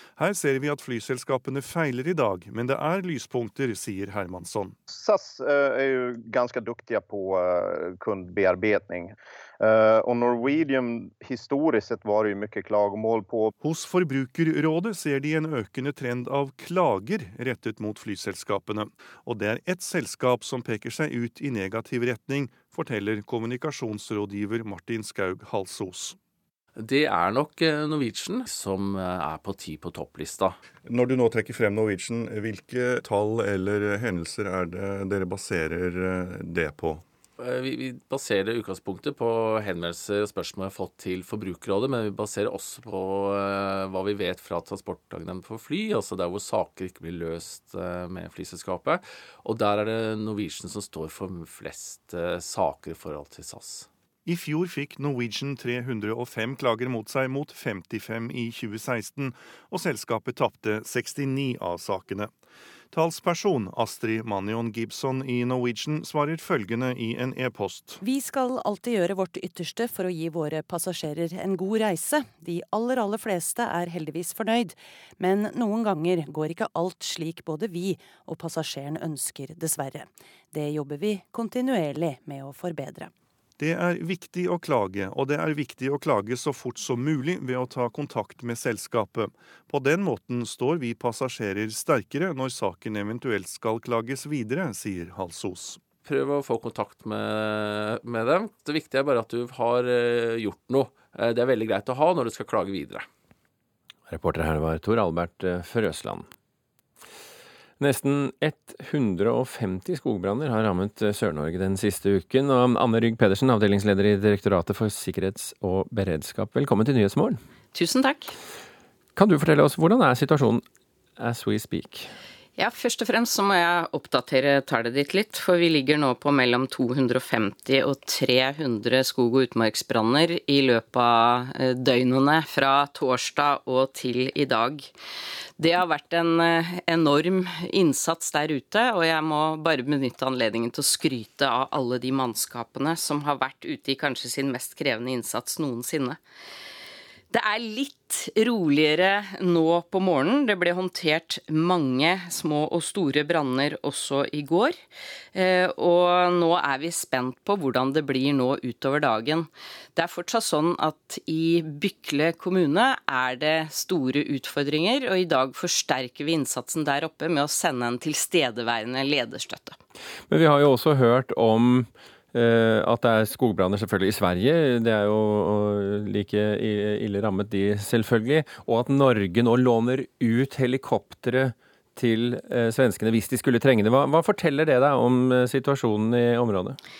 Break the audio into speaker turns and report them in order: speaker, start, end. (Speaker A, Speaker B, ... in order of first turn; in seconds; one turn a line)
Speaker A: 0.2-4.7
Speaker B: 4.9-13.5
Speaker A: 13.6-26.2
Speaker C: 26.8-30.6
Speaker A: 30.9-37.0
Speaker C: 37.4-53.9
Speaker A: 54.2-62.3
Speaker A: 62.9-68.0
Speaker D: 68.0-83.1
Speaker A: 83.6-95.8
Speaker C: 96.0-103.1
Speaker E: 104.1-106.3
Speaker E: 107.8-117.4
Speaker F: 117.7-118.3
Speaker E: 119.2-120.6
Speaker E: 121.2-122.1
Speaker F: 122.6-134.9
Speaker F: 135.6-146.2
Speaker F: 147.3-154.8
Speaker F: 155.3-169.8
Speaker E: 170.3-186.8